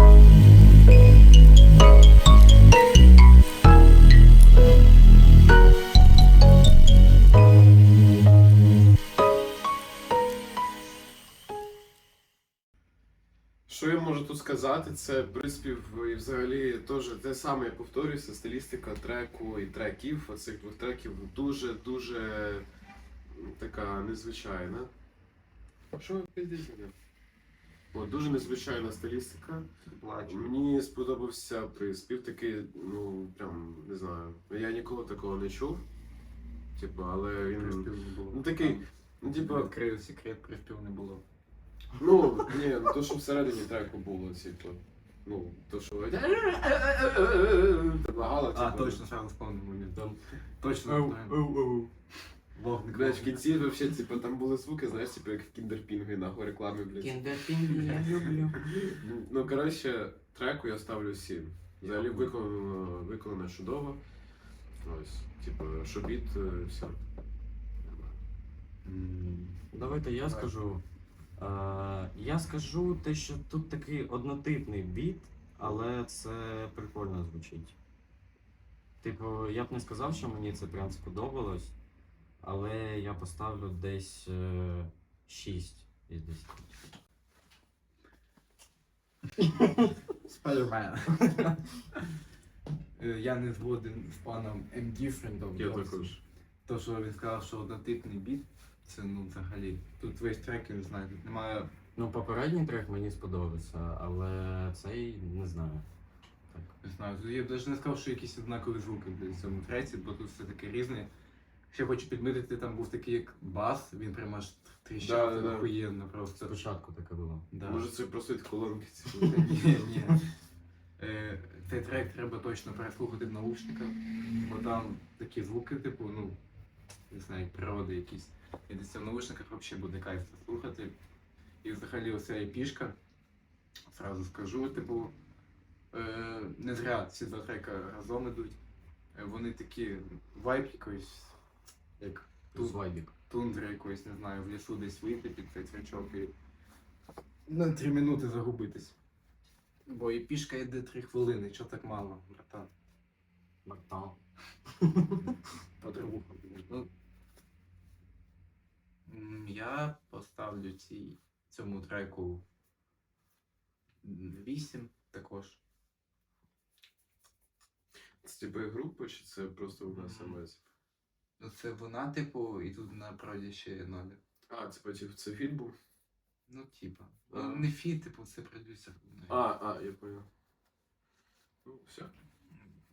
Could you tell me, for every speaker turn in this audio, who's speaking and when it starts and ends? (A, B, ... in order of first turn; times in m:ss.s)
0:13.7-0:22.6 A
0:23.4-0:24.9 A
0:26.0-0:26.9 A
0:27.9-0:29.7 A
0:29.9-0:30.5 B
0:30.3-0:35.8 A
0:36.8-0:39.7 A
0:37.5-0:41.2 B
0:42.0-0:46.3 A
0:46.1-0:47.9 B
0:47.9-0:49.0 A
0:48.5-0:50.0 B
0:49.9-0:50.2 C
0:50.6-0:51.4 B
0:50.9-0:51.9 C
0:52.5-0:53.5 B
0:52.9-0:57.9 A
0:57.0-0:59.0 C
0:59.0-1:04.0 A
1:04.8-1:07.0 A
1:07.8-1:08.1 C
1:08.8-1:09.6 B
1:09.7-1:10.8 C
1:11.4-1:17.7 C
1:19.0-1:21.7 C
1:22.4-1:26.7 C
1:30.2-1:31.6 B
1:33.0-1:41.7 B
1:35.6-1:36.2 A
1:42.0-1:45.8 C
1:46.8-1:51.1 B
1:51.7-1:56.6 B
1:55.0-1:55.7 A
1:56.4-1:57.5 C
1:57.5-1:57.9 B
1:57.6-2:00.2 A
1:59.2-2:00.2 B
2:01.0-2:06.4 B
2:07.1-2:10.9 B
2:11.6-2:13.0 B
2:13.9-2:15.1 B
2:15.9-2:18.6 B
2:19.1-2:21.4 B
2:22.0-2:26.3 B
2:22.0-2:23.1 C
2:27.5-2:28.9 B
2:29.8-2:32.7 B
2:33.6-2:34.2 C
2:34.8-2:35.3 C
2:35.8-2:36.8 B
2:39.1-2:42.4 B
2:44.0-2:45.6 B
2:48.2-2:50.6 A
2:49.9-2:50.4 B
2:51.4-2:54.2 B
2:54.5-2:55.8 A
2:56.5-2:59.4 B
2:57.3-2:57.7 A
2:59.3-3:00.3 A
3:01.6-3:02.1 A